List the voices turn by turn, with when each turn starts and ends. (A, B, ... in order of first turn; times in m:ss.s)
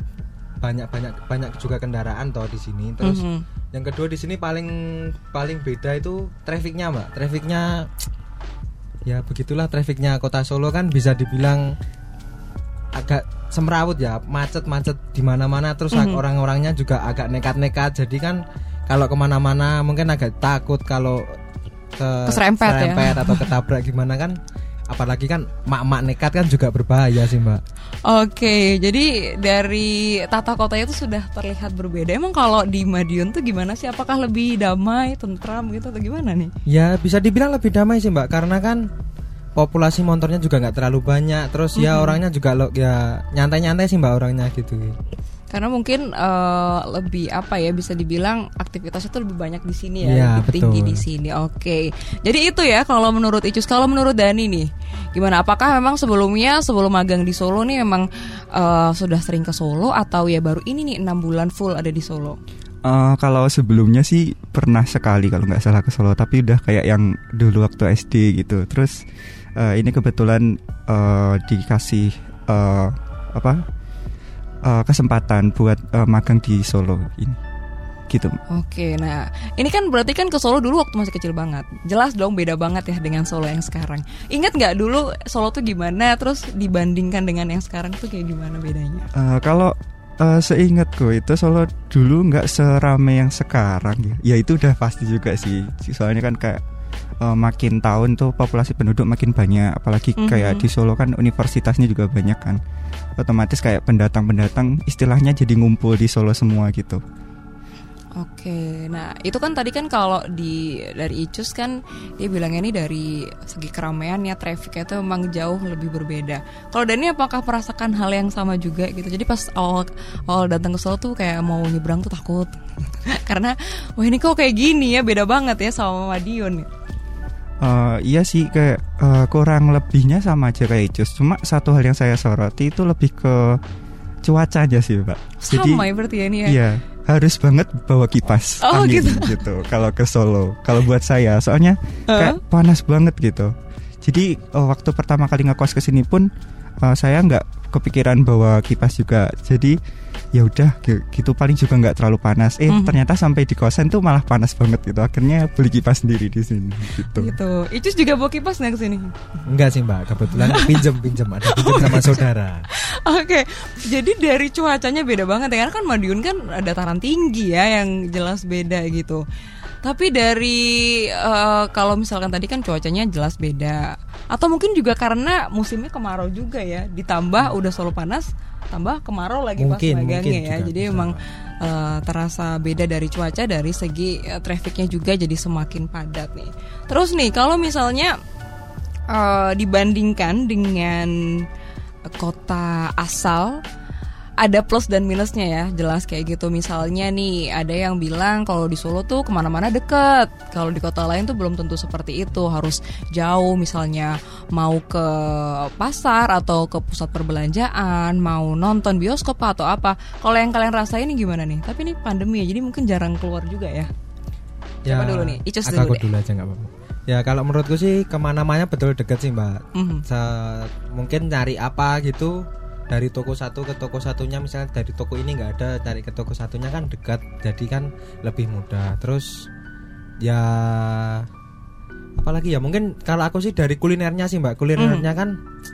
0:00.6-0:07.9 A
0:03.0-0:03.4 B
0:09.0-0:11.7 A
0:12.9-0:21.4 A
0:15.9-0:16.2 B
0:22.0-0:24.4 A
0:22.3-0:23.4 B
0:24.9-0:27.6 A
0:28.0-0:36.5 B
0:36.7-0:38.9 A
0:39.6-0:45.0 A
0:41.7-0:42.2 B
0:45.5-1:02.4 B
0:50.0-0:51.0 A
1:02.8-1:09.0 C
1:09.6-1:13.6 C
1:14.6-1:17.4 C
1:18.1-1:18.4 C
1:18.5-1:29.1 B
1:29.1-1:36.6 C
1:37.2-1:42.6 C
1:40.2-1:40.6 B
1:43.2-1:47.0 C
1:48.2-2:06.7 B
2:07.6-2:13.6 C
2:14.2-2:15.8 C
2:15.4-2:16.6 B
2:16.4-2:26.3 C
2:18.6-2:19.4 B
2:22.1-2:22.4 B
2:26.8-2:29.8 C
2:30.3-2:37.4 C
2:32.7-2:33.0 B
2:37.1-2:39.2 B
2:39.5-2:42.7 A
2:40.3-2:40.8 B
2:41.5-2:49.2 B
2:49.8-3:08.2 B
2:59.6-3:01.2 A
3:09.1-3:11.5 B
3:12.1-3:13.6 B
3:14.4-3:33.9 B
3:34.8-3:49.5 A
3:34.9-3:36.0 B
3:39.7-3:40.0 B
3:50.2-3:51.3 A
3:52.2-3:55.4 A
3:54.8-3:55.1 B